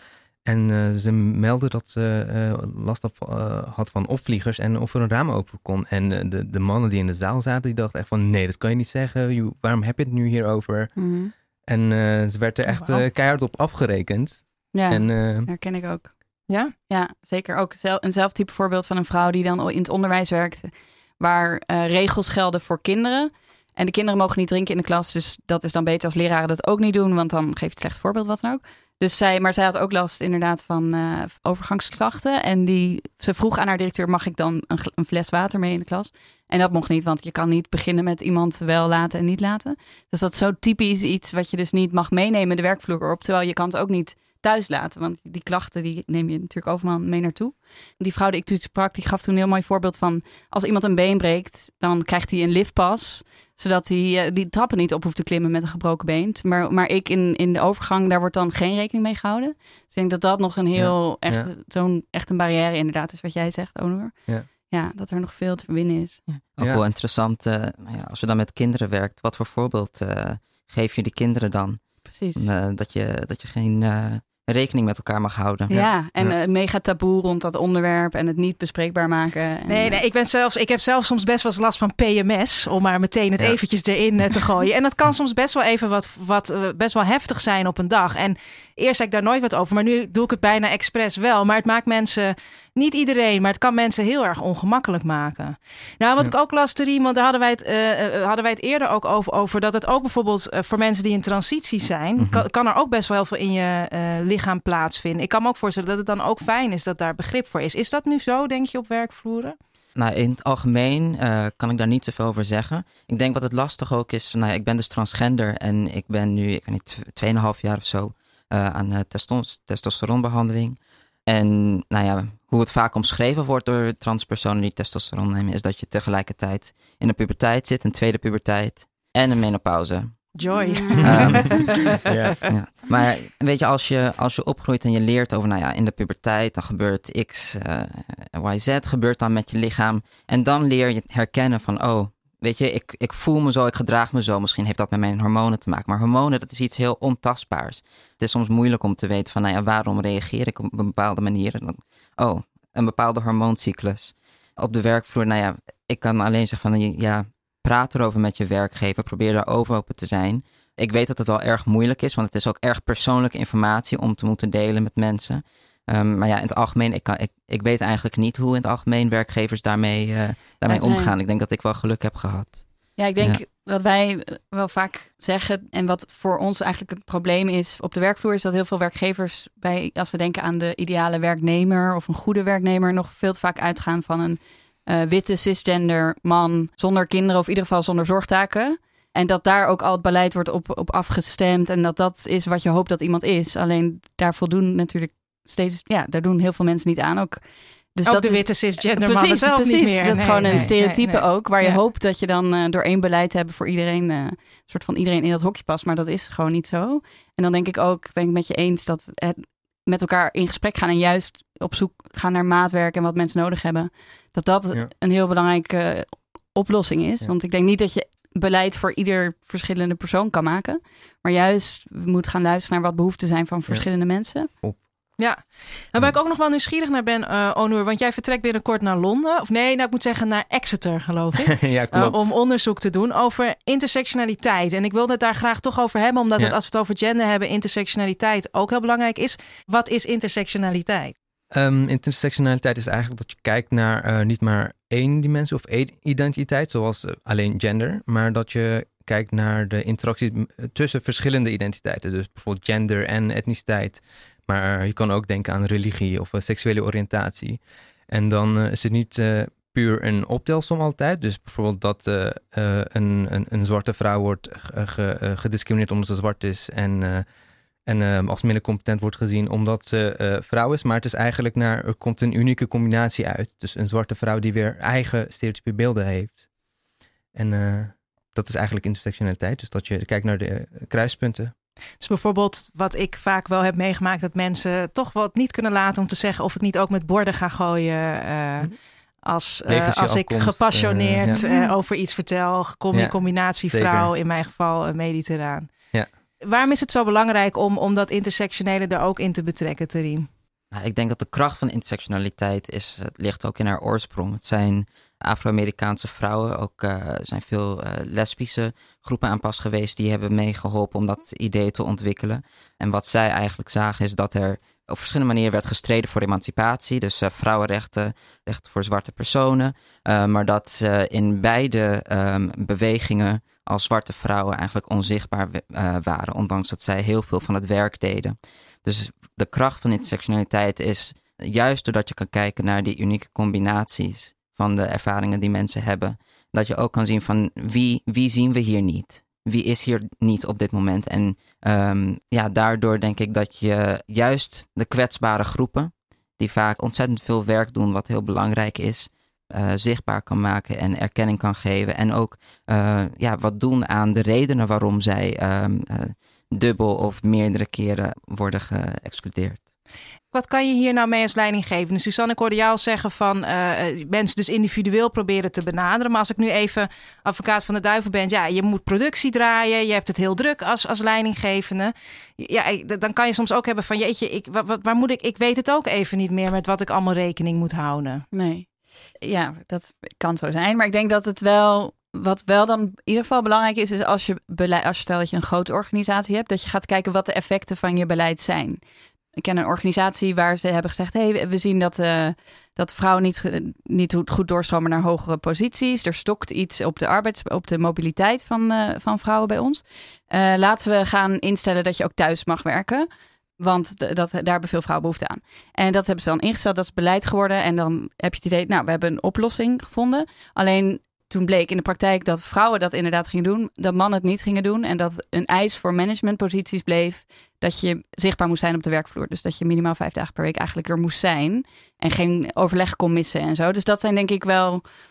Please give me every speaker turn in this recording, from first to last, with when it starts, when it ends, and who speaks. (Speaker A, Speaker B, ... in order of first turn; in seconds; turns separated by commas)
Speaker A: 0.5-11.0, Speaker B: 11.0-11.3, Speaker A: 11.7-15.5, Speaker C: 12.7-13.0, Speaker B: 14.7-66.2, Speaker A: 60.7-61.5, Speaker A: 66.6-66.8, Speaker D: 66.6-75.7, Speaker B: 72.1-72.5, Speaker A: 75.7-76.4, Speaker B: 75.7-80.0, Speaker C: 79.7-109.5, Speaker D: 102.2-102.5, Speaker D: 110.0-130.3, Speaker C: 130.4-132.2, Speaker B: 130.6-131.6, Speaker A: 131.0-132.4, Speaker D: 131.0-131.6, Speaker D: 132.5-173.4, Speaker B: 170.7-171.1, Speaker B: 173.0-224.5, Speaker C: 198.1-201.8, Speaker A: 224.5-224.9, Speaker C: 225.2-241.1, Speaker A: 231.4-232.3, Speaker A: 241.5-267.3, Speaker A: 267.9-276.5, Speaker A: 277.3-281.5, Speaker C: 282.0-288.7, Speaker C: 289.2-295.7, Speaker A: 289.7-291.4, Speaker A: 292.9-294.1, Speaker C: 296.4-300.3, Speaker D: 300.7-359.6, Speaker C: 360.3-378.2, Speaker B: 378.3-388.8, Speaker B: 389.4-403.1, Speaker B: 403.6-424.9